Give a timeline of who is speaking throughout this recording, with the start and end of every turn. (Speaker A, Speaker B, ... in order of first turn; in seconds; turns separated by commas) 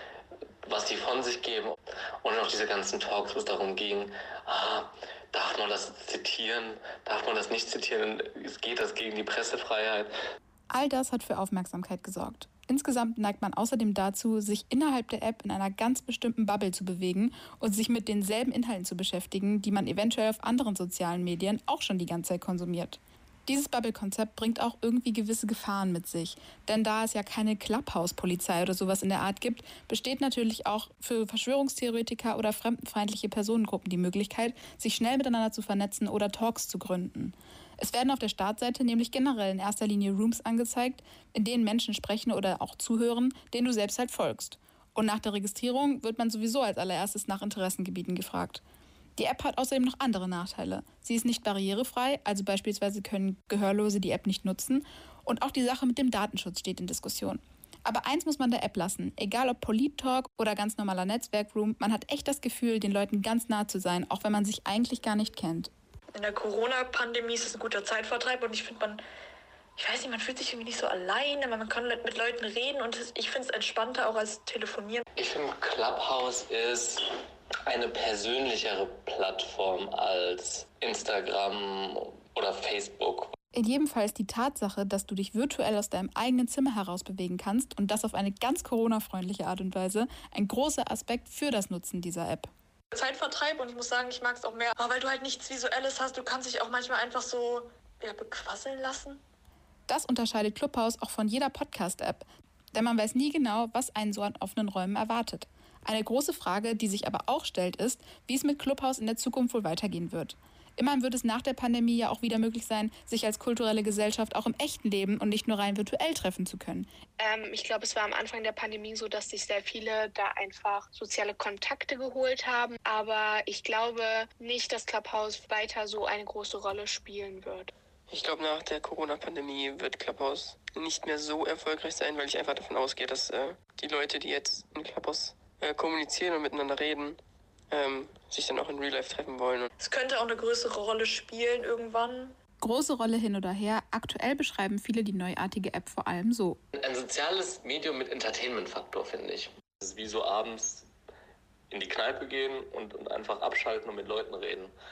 Speaker A: 0.7-10.1, Speaker B: 10.7-48.6, Speaker B: 49.2-65.7, Speaker C: 66.2-69.0, Speaker C: 69.8-75.0, Speaker A: 75.2-77.0, Speaker A: 77.7-83.3, Speaker B: 83.5-92.5, Speaker C: 92.9-99.2, Speaker B: 99.9-116.9, Speaker D: 117.2-127.7, Speaker E: 128.1-137.2, Speaker E: 137.7-139.7, Speaker C: 139.8-142.3, Speaker B: 142.6-146.6, Speaker A: 146.7-150.9, Speaker A: 151.7-154.7